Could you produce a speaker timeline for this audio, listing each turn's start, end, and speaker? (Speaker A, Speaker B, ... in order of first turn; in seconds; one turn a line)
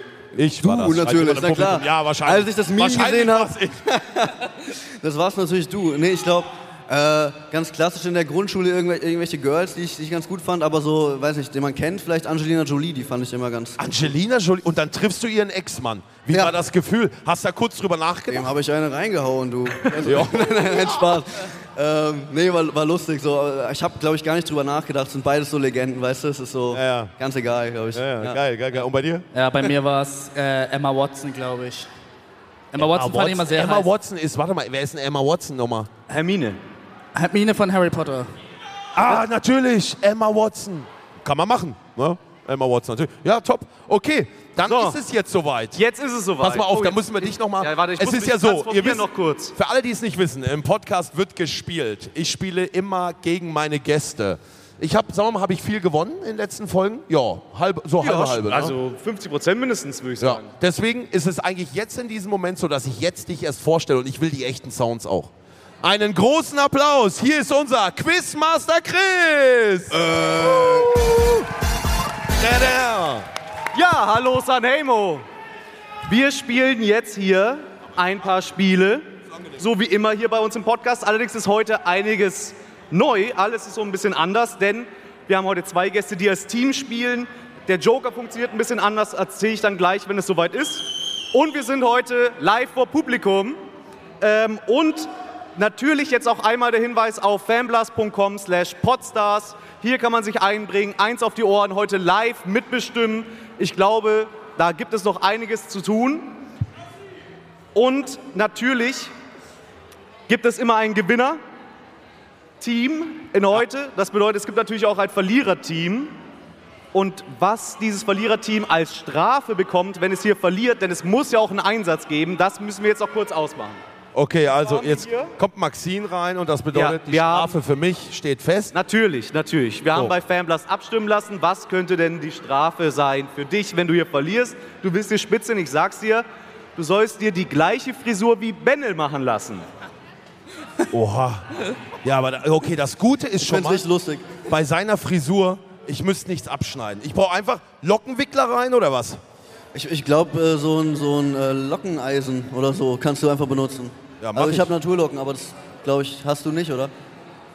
Speaker A: 0.3-3.8
Speaker B: 0.6-13.9
Speaker A: 13.8-18.5
Speaker B: 16.3-16.6
Speaker B: 18.3-28.4
Speaker A: 20.0-20.5
Speaker A: 26.7-27.1
Speaker A: 27.9-29.3
Speaker C: 29.3-31.9
Speaker C: 32.7-33.9
Speaker A: 32.8-35.9
Speaker D: 36.1-36.6
Speaker C: 37.1-38.3
Speaker A: 39.0-45.8
Speaker D: 44.6-45.0
Speaker D: 45.8-49.5
Speaker A: 46.4-58.8
Speaker D: 58.0-60.5
Speaker A: 60.2-71.1
Speaker A: 72.4-73.3
Speaker D: 73.7-75.2
Speaker D: 76.0-93.6
Speaker D: 94.2-106.4
Speaker D: 107.7-109.1
Speaker D: 110.3-111.4
Speaker D: 112.6-116.2
Speaker D: 116.9-123.8
Speaker A: 124.1-128.7
Speaker D: 124.5-125.3
Speaker D: 126.7-127.6
Speaker D: 128.7-139.7
Speaker A: 140.9-141.5
Speaker A: 142.0-143.8
Speaker B: 143.4-144.3
Speaker A: 144.5-149.2
Speaker B: 149.7-156.9
Speaker A: 154.2-154.7